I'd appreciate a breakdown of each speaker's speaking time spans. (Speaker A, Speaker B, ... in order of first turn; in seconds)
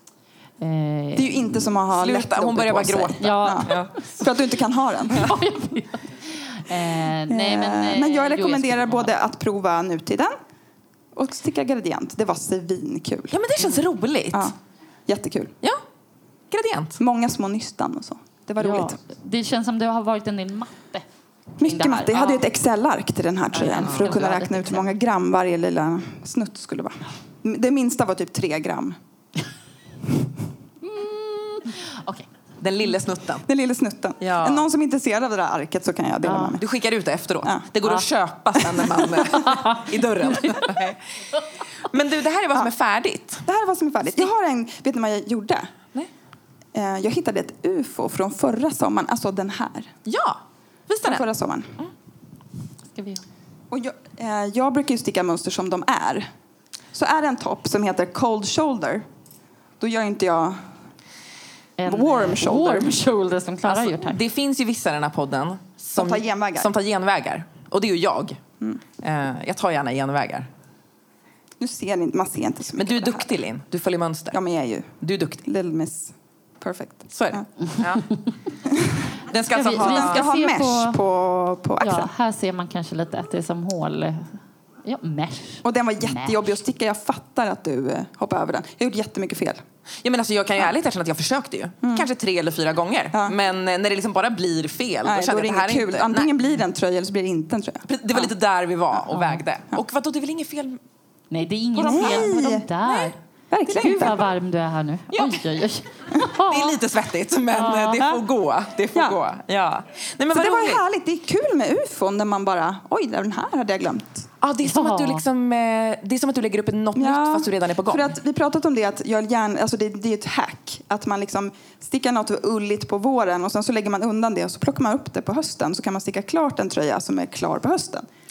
Speaker A: 0.6-1.6, 3.2-4.0, 5.1-9.1, 18.6-21.0, 21.6-22.4, 23.5-24.9, 30.8-32.3, 36.2-36.6, 38.9-40.8, 52.9-53.2, 61.8-64.2, 77.6-78.3, 79.5-81.0, 81.8-86.5, 99.1-99.4, 101.3-103.2, 103.7-106.8, 107.5-108.1, 114.6-115.2
Speaker B: 1.1-5.3, 7.3-10.3, 11.1-13.4, 15.1-15.5, 17.0-19.0, 21.6-29.0, 33.5-36.7, 43.5-45.7, 46.7-49.9, 51.0-51.8, 53.7-56.3, 56.9-59.0, 59.8-60.6, 61.9-63.0, 66.0-66.7, 71.6-73.3, 74.3-74.9, 75.4-77.4, 78.7-79.0, 79.7-82.1, 85.6-89.6, 91.8-92.1, 95.0-98.3, 101.8-102.7, 103.5-104.2, 110.3-114.3, 116.9-128.1
Speaker C: 1.9-4.3, 13.3-14.5, 16.5-17.0, 23.7-24.3, 32.6-33.5, 34.2-34.6, 36.6-41.0, 41.8-43.5, 50.0-51.3, 63.7-68.4, 69.0-70.5, 72.8-74.4, 75.0-75.4, 77.1-78.0, 79.3-80.3, 90.0-96.3, 97.9-100.8, 101.9-102.3, 105.1-105.5, 106.3-110.8, 114.4-118.1